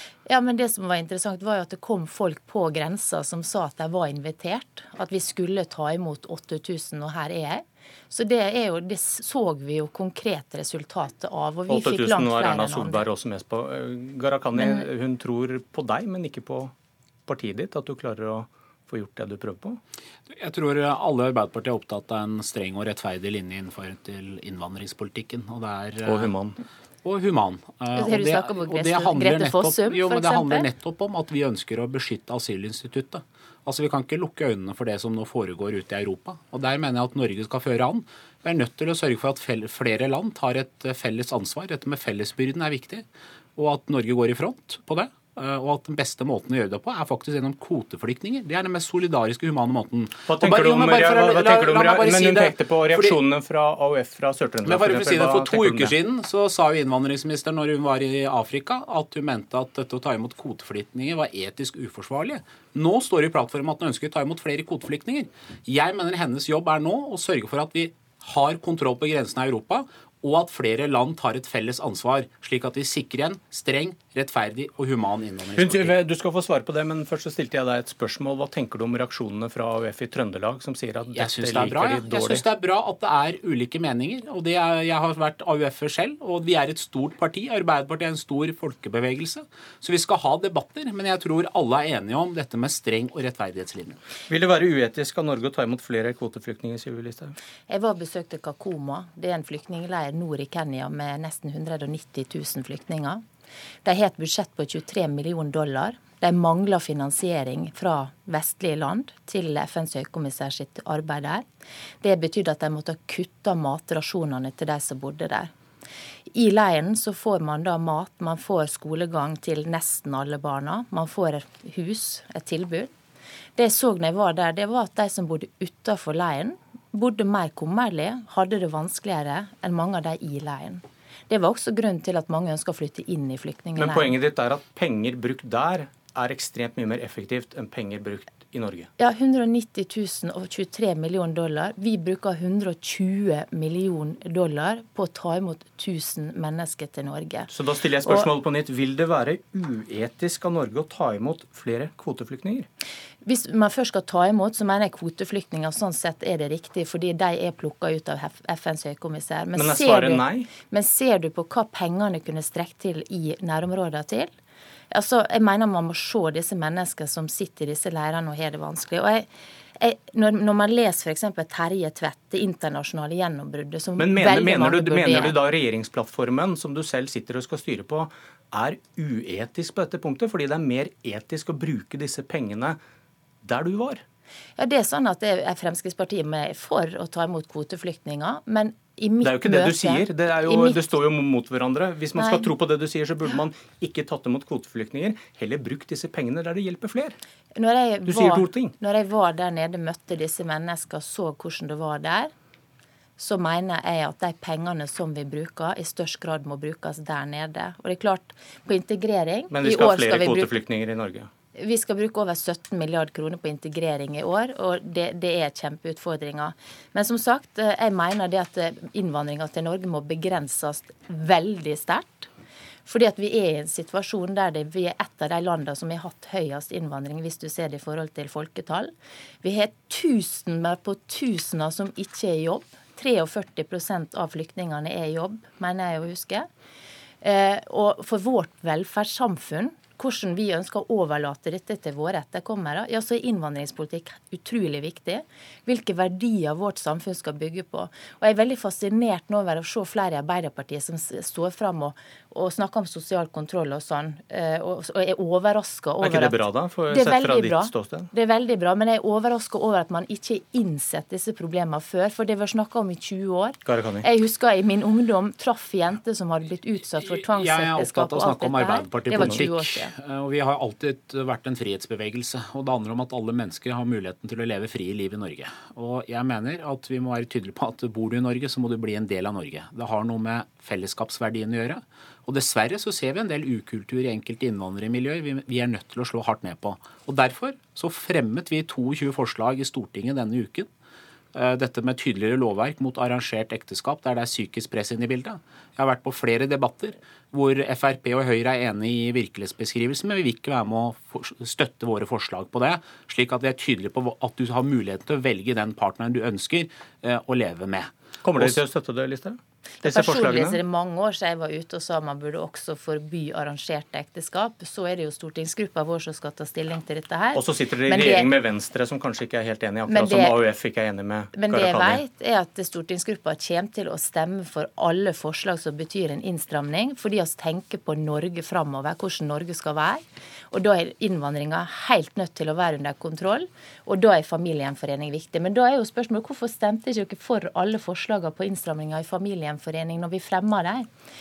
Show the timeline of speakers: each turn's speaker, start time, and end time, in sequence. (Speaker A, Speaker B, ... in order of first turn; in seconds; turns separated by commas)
Speaker A: 0.2-13.0, Speaker B: 11.7-16.7, Speaker B: 17.3-19.8, Speaker C: 20.3-26.3, Speaker B: 26.1-26.6, Speaker C: 27.0-43.0, Speaker A: 27.9-30.7, Speaker C: 43.5-53.2, Speaker B: 50.3-55.9, Speaker C: 54.6-75.9, Speaker B: 75.5-82.4, Speaker C: 81.1-94.0, Speaker B: 94.3-97.3, Speaker A: 97.7-103.2, Speaker A: 103.8-111.4, Speaker A: 112.0-115.5, Speaker A: 116.3-122.9, Speaker A: 123.5-134.2, Speaker B: 133.8-138.9, Speaker A: 139.0-147.5, Speaker B: 147.5-152.7, Speaker A: 148.0-148.3, Speaker A: 153.2-164.3, Speaker B: 159.6-160.5, Speaker A: 164.9-175.3, Speaker B: 174.0-182.8, Speaker B: 183.4-184.0, Speaker A: 184.6-190.9, Speaker B: 189.2-197.2, Speaker A: 192.2-192.5, Speaker A: 197.5-202.3, Speaker B: 198.1-198.7, Speaker A: 203.2-210.5, Speaker B: 209.5-211.3, Speaker A: 211.5-222.3, Speaker A: 222.8-236.5, Speaker A: 237.2-269.9, Speaker B: 256.0-258.1, Speaker B: 263.6-264.1, Speaker C: 267.0-290.7, Speaker B: 269.1-269.4, Speaker C: 291.3-308.6, Speaker B: 308.2-310.6, Speaker A: 309.8-318.3, Speaker B: 317.3-322.0, Speaker A: 319.9-320.4, Speaker A: 321.3-340.9